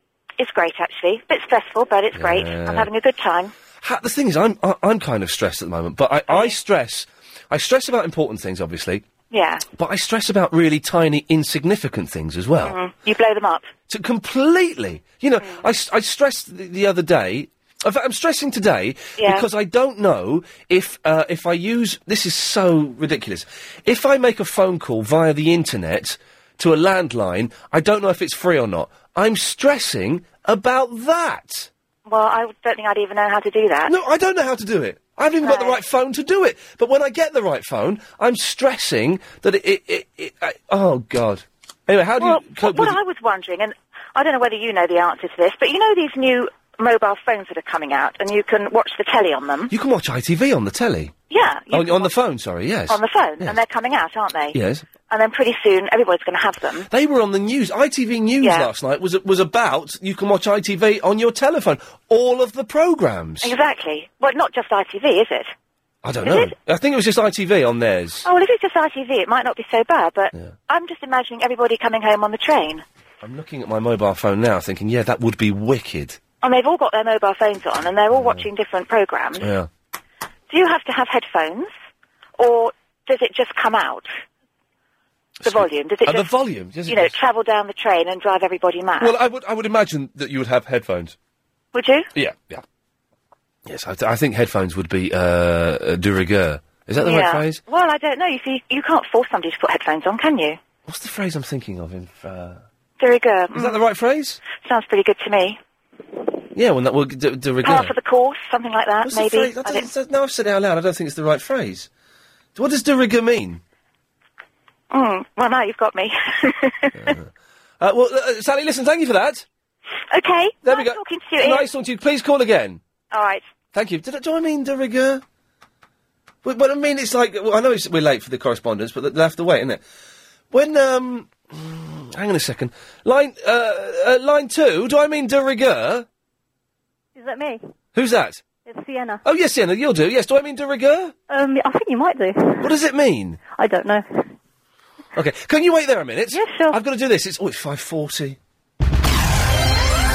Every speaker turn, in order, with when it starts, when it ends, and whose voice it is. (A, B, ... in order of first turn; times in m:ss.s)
0:00.4-0:03.5 A
0:02.1-0:02.9 B
0:03.8-0:09.0 B
0:06.3-0:06.6 A
0:09.3-0:09.6 A
0:09.8-0:12.8 B
0:12.6-0:13.7 A
0:13.9-0:31.7 B
0:15.4-0:15.7 A
0:19.2-0:19.5 A
0:32.1-0:33.9 A
0:33.9-0:43.0 B
0:35.4-0:35.8 A
0:42.2-0:49.7 A
0:49.7-0:51.2 B
0:51.3-0:52.1 A
0:51.7-0:53.6 B
0:52.9-0:54.6 A
0:54.5-0:54.9 B
0:55.1-0:56.9 A
0:56.9-1:03.5 B
0:58.4-0:58.7 A
1:03.4-1:05.5 A
1:06.0-1:08.3 B
1:06.2-1:06.5 A
1:08.2-1:12.8 A
1:13.2-1:16.2 B
1:16.4-1:19.5 A
1:18.1-1:18.5 B
1:19.4-1:19.7 B
1:20.5-1:21.7 A
1:22.4-1:24.1 A
1:25.4-1:26.3 A
1:25.4-1:27.1 B
1:26.9-1:29.2 A
1:29.0-1:31.2 B
1:31.7-1:32.1 A
1:32.2-1:32.6 B
1:33.7-1:37.6 B
1:37.0-1:40.6 A
1:40.9-1:42.6 B
1:43.0-1:43.8 A
1:43.6-1:44.4 B
1:44.6-1:45.6 A
1:46.6-1:48.0 B
1:47.6-1:49.9 A
1:49.0-1:51.9 B
1:52.6-1:53.6 B
1:54.9-1:57.1 A
1:57.0-1:57.3 B
1:57.8-1:59.4 B
2:00.1-2:01.7 A
2:00.6-2:02.8 B
2:03.1-2:03.4 A
2:03.7-2:05.2 B
2:06.4-2:09.8 B
2:10.5-2:16.1 B
2:17.2-2:17.6 C
2:18.0-2:18.4 B
2:18.7-2:19.2 C
2:19.2-2:21.1 B
2:21.3-2:22.7 C
2:22.6-2:23.4 B
2:23.6-2:24.3 C
2:25.2-2:28.4 B
2:26.3-2:26.8 C